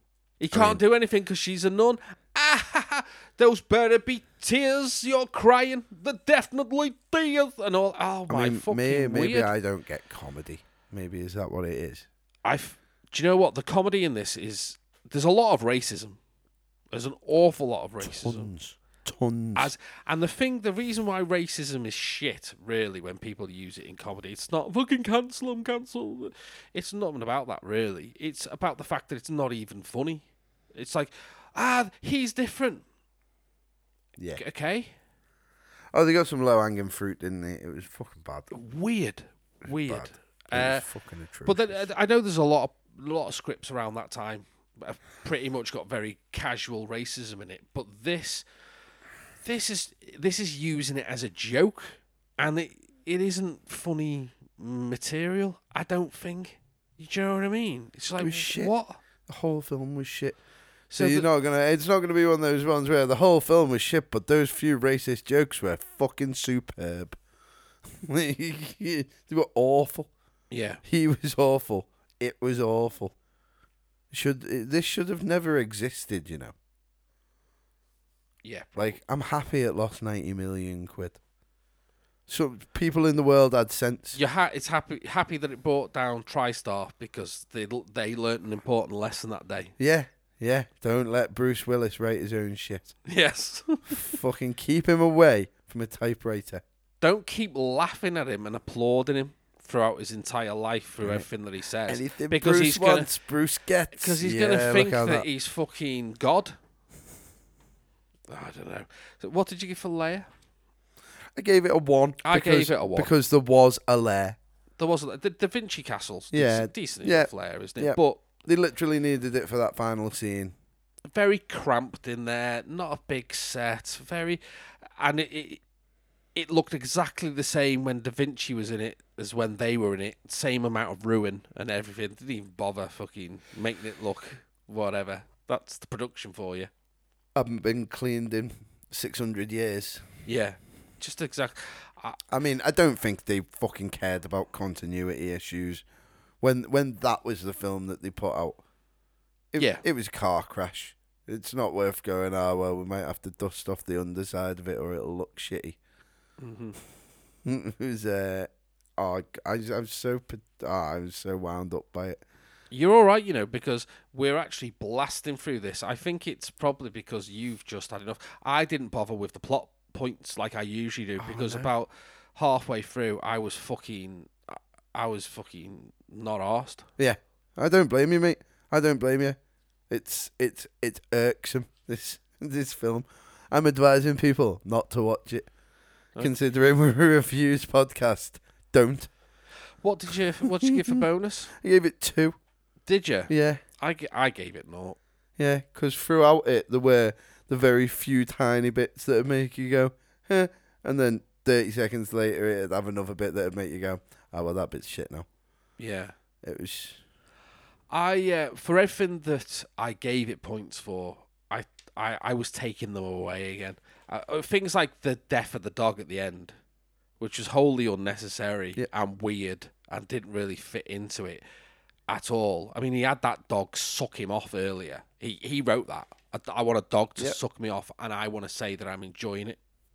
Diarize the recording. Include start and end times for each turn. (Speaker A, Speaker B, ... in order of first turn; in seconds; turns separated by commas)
Speaker A: 0.4-9.5, Speaker B: 0.5-0.8, Speaker B: 8.3-12.1, Speaker A: 12.4-16.2, Speaker A: 16.9-18.5, Speaker B: 18.0-19.7, Speaker A: 19.5-32.8, Speaker B: 34.2-34.4, Speaker A: 34.3-34.9, Speaker B: 35.9-38.5, Speaker A: 38.5-40.9, Speaker B: 39.9-41.9, Speaker A: 41.4-48.4, Speaker A: 49.4-59.0, Speaker B: 58.2-58.7, Speaker B: 59.3-60.4, Speaker A: 60.9-61.3, Speaker B: 61.0-67.2, Speaker B: 67.9-70.1, Speaker A: 70.5-70.8, Speaker B: 70.8-73.1, Speaker B: 74.1-76.5, Speaker A: 78.4-79.0, Speaker B: 78.7-81.2, Speaker B: 82.3-84.2, Speaker A: 84.1-89.7, Speaker B: 89.8-93.0, Speaker A: 93.1-94.0, Speaker B: 93.9-96.6, Speaker A: 97.0-103.1, Speaker B: 101.0-101.3, Speaker B: 101.9-105.3, Speaker A: 103.9-106.6, Speaker A: 108.3-110.3, Speaker B: 111.3-114.4, Speaker A: 112.2-113.1, Speaker A: 114.8-118.2, Speaker B: 116.3-120.5, Speaker A: 121.1-124.4, Speaker A: 125.0-125.6, Speaker A: 126.3-136.7, Speaker B: 137.3-140.0, Speaker A: 140.2-142.2, Speaker B: 142.3-145.8, Speaker B: 146.4-148.6, Speaker B: 149.5-155.8, Speaker A: 149.6-149.8, Speaker A: 156.4-156.8, Speaker B: 157.4-162.2, Speaker A: 162.7-176.9, Speaker B: 171.2-171.7, Speaker B: 177.0-179.4, Speaker B: 179.9-185.5, Speaker B: 186.2-189.1, Speaker A: 189.8-191.5, Speaker B: 190.4-191.0, Speaker B: 191.6-192.4, Speaker A: 192.8-195.0, Speaker B: 193.3-193.6, Speaker B: 195.4-205.2, Speaker A: 205.8-206.1, Speaker B: 206.4-207.0, Speaker A: 207.9-216.5, Speaker A: 217.2-221.4, Speaker A: 222.1-229.6